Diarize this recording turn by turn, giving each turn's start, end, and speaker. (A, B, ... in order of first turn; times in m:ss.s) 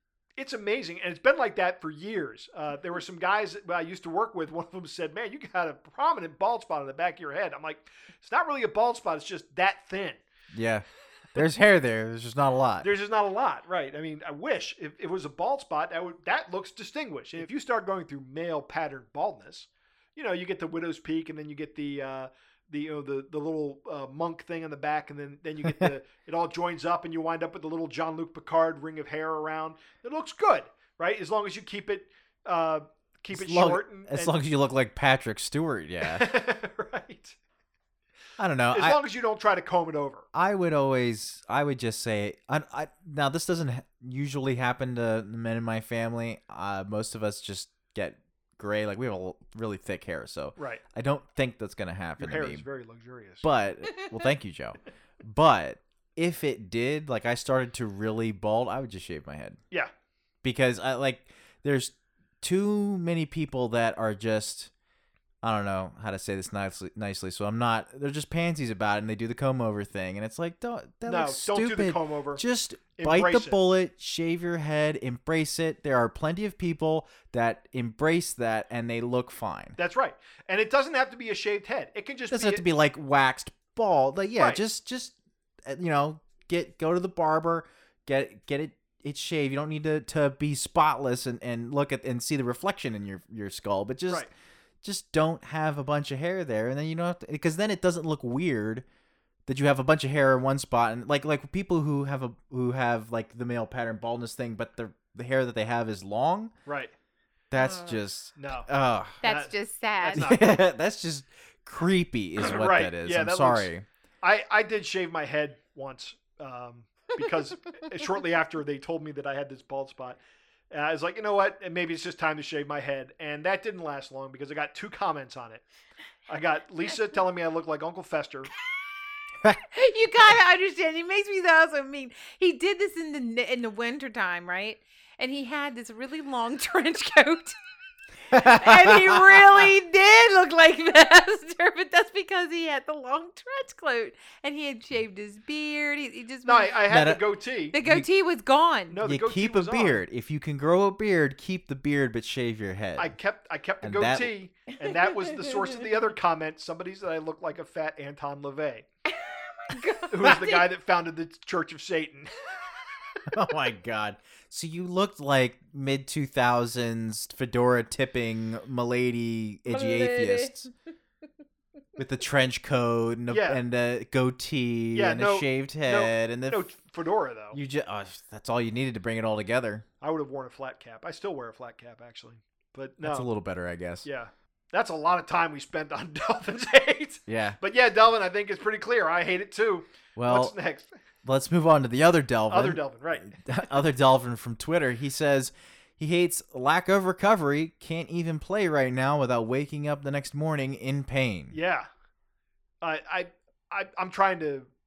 0:00.4-0:10.2 A
0:10.5-0:12.9 B
0:12.8-0:34.4 A
0:33.3-0:36.3 B
0:36.0-0:37.4 A
0:38.4-0:39.0 B
0:38.7-0:40.3 A
0:40.3-0:52.6 B
0:50.6-0:50.8 A
0:52.2-0:53.5 A
0:53.4-0:59.6 B
1:00.4-1:04.7 B
1:05.4-1:19.8 B
1:11.0-1:12.4 A
1:13.0-1:13.6 A
1:19.8-1:22.6 A
1:22.3-1:34.3 B
1:34.8-1:38.8 B
1:39.5-1:46.5 B
1:46.7-1:46.9 A
1:47.5-1:49.2 B
1:47.6-1:48.0 C
1:48.4-1:48.7 A
1:49.2-1:50.2 C
1:49.2-1:50.6 A
1:50.1-1:53.8 B
1:52.4-1:53.7 A
1:54.2-2:00.2 A
2:00.7-2:05.6 A
2:06.3-2:08.5 A
2:09.7-2:17.6 C
2:18.3-2:19.2 B
2:18.3-2:26.8 C
2:26.4-2:27.8 A
2:26.9-2:27.2 B
2:27.7-2:29.0 C
2:27.8-2:28.1 B
2:28.9-2:30.0 A
2:29.0-2:33.1 B
2:33.0-2:38.9 A
2:33.8-2:34.3 B
2:39.1-2:40.7 C
2:40.1-2:42.8 A
2:43.3-2:50.7 B
2:49.8-2:50.5 C
2:52.0-2:56.6 B
2:53.3-2:53.6 A
2:54.9-2:57.6 A
2:57.5-2:59.9 B
3:00.0-3:03.3 A
3:03.0-3:04.1 B
3:04.0-3:10.9 A
3:07.3-3:07.6 B
3:10.2-3:10.5 B
3:11.2-3:21.6 B
3:12.5-3:13.3 A
3:21.5-3:21.9 A
3:22.8-3:24.7 A